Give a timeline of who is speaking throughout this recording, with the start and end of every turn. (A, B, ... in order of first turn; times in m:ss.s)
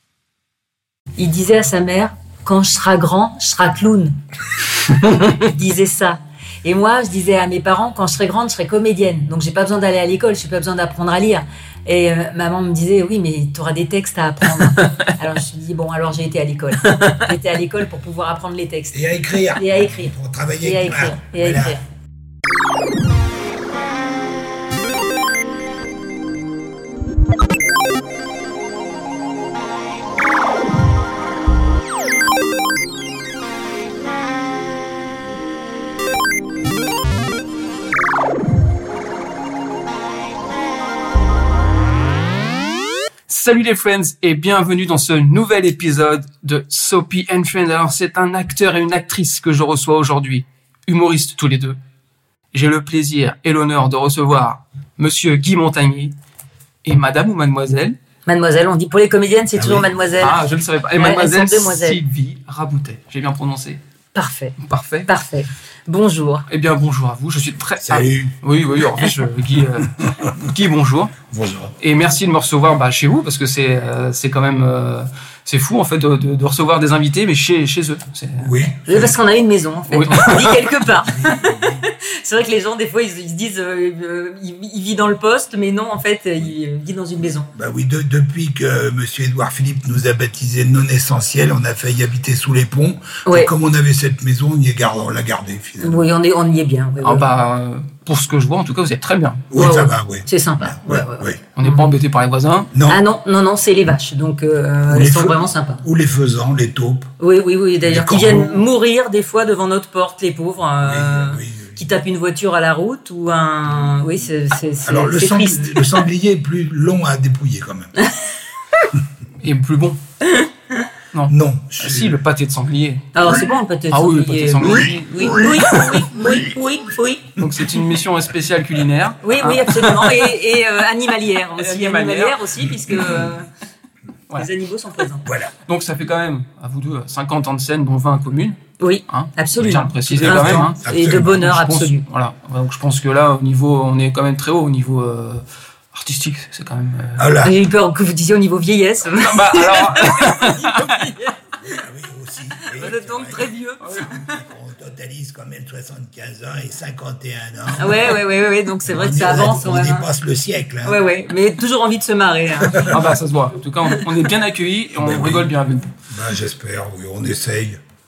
0:01.2-0:04.2 A
0:05.0-0:21.8 A
0:16.8-0:17.2 B
0:18.9-0:21.8 C
0:43.3-0:51.8 B
0:52.5-0:56.1 B
0:56.8-0:58.0 B
0:58.2-1:00.4 A
0:59.5-0:59.9 C
1:00.2-1:03.8 B
1:01.0-1:02.0 A
1:04.1-1:06.4 A
1:04.6-1:05.1 B
1:06.5-1:11.2 B
1:07.8-1:08.4 C
1:10.0-1:10.4 C
1:11.3-1:11.7 C
1:11.8-1:18.5 B
1:18.4-1:19.2 C
1:18.9-1:27.5 A
1:19.9-1:20.5 B
1:21.0-1:21.8 C
1:27.5-1:36.1 C
1:33.2-1:33.5 A
1:35.8-1:37.3 A
1:37.0-1:39.5 B
1:39.5-1:41.4 C
1:39.5-1:41.9 A
1:41.6-1:42.7 B
1:42.7-1:43.0 C
1:42.9-1:45.8 A
1:44.9-1:47.1 C
1:47.2-1:56.0 A
1:47.8-1:48.6 C
1:50.8-1:51.8 C
1:54.8-1:58.0 C
1:59.4-2:00.0 B
2:01.1-2:03.1 B
2:01.3-2:02.2 C
2:03.1-2:07.3 A
2:03.9-2:05.4 B
2:04.6-2:06.5 C
2:07.4-2:10.3 B
2:09.2-2:13.5 A
2:11.6-2:12.4 B
2:14.4-2:15.3 A
2:15.2-2:15.5 C
2:15.7-2:18.6 B
2:18.8-2:22.0 A
2:19.1-2:27.3 B
2:20.1-2:21.4 C
2:27.2-2:27.5 C
2:27.4-2:31.5 A
2:29.1-2:30.9 B
2:31.6-2:33.5 C
2:32.6-2:33.8 A
2:33.8-2:34.1 B
2:34.0-2:38.2 C
2:37.7-2:40.1 A
2:38.8-2:41.0 C
2:40.8-2:43.0 A
2:42.6-2:43.1 C
2:42.9-2:45.9 B
2:45.0-2:45.5 C
2:46.1-2:47.8 C